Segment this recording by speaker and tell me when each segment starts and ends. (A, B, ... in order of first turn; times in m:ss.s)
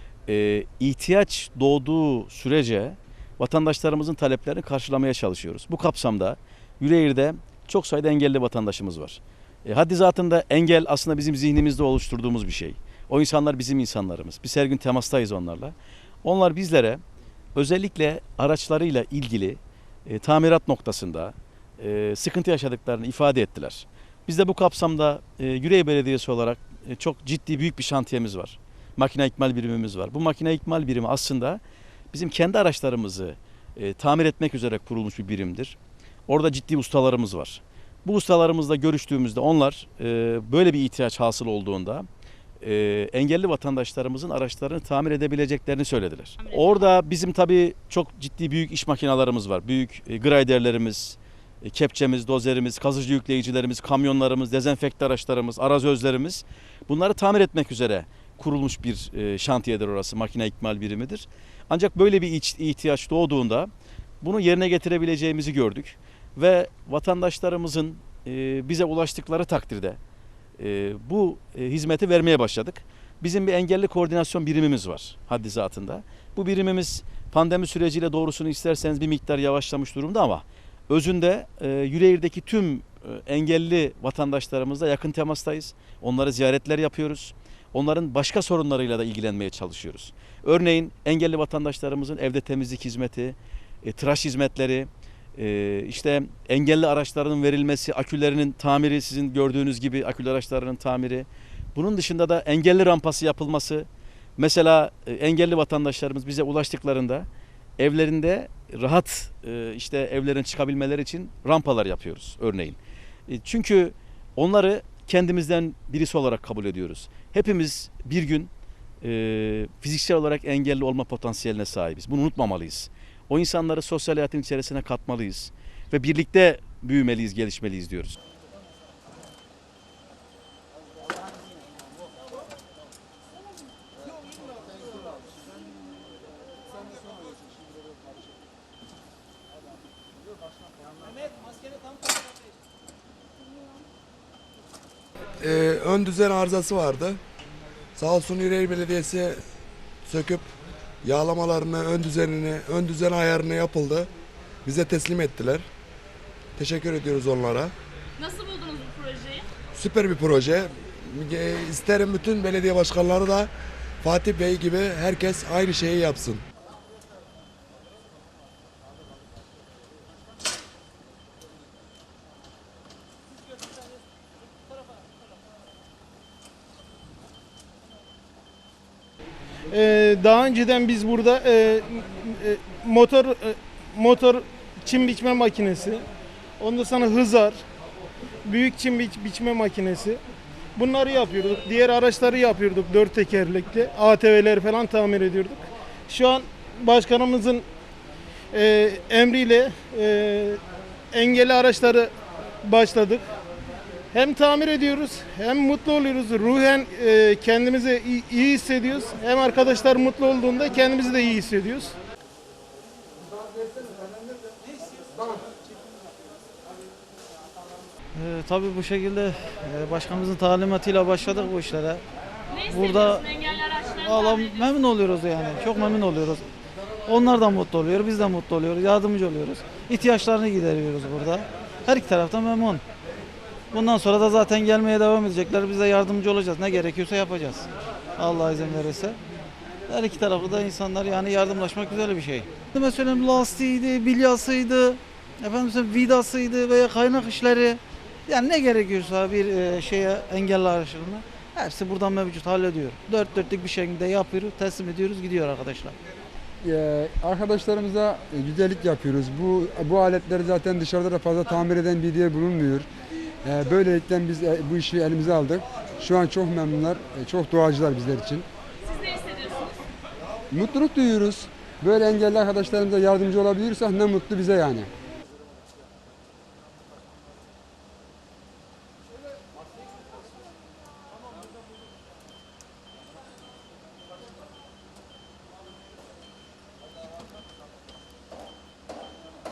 0:00.3-0:17.0 A
0:17.5-0:31.6 A
0:32.1-0:35.8 A
0:36.3-0:42.1 A
0:42.6-1:03.7 A
0:46.4-0:46.8 B
1:04.2-1:10.0 A
1:10.6-1:43.9 A
1:44.4-1:47.3 A
1:47.8-1:58.5 A
1:59.0-2:08.1 A
2:25.4-2:27.2 C
2:28.0-2:29.4 C
2:30.0-2:30.5 C
2:31.0-2:34.1 C
2:34.6-2:35.6 C
2:36.6-2:37.7 C
2:38.2-2:39.4 B
2:39.7-2:43.5 C
2:44.0-2:46.4 C
2:59.7-3:06.0 D
3:06.6-3:07.6 D
3:08.4-3:10.2 D
3:10.8-3:17.6 D
3:18.5-3:20.6 D
3:21.1-3:22.1 D
3:22.6-3:23.3 D
3:24.1-3:31.9 D
3:38.2-3:42.0 E
3:42.5-3:44.7 B
3:42.7-3:46.4 E
3:47.1-3:52.8 E
3:53.7-3:59.2 E
3:59.9-4:15.9 E
4:16.6-4:22.9 F
4:23.4-4:28.5 F
4:28.8-4:29.7 B
4:30.5-4:34.9 F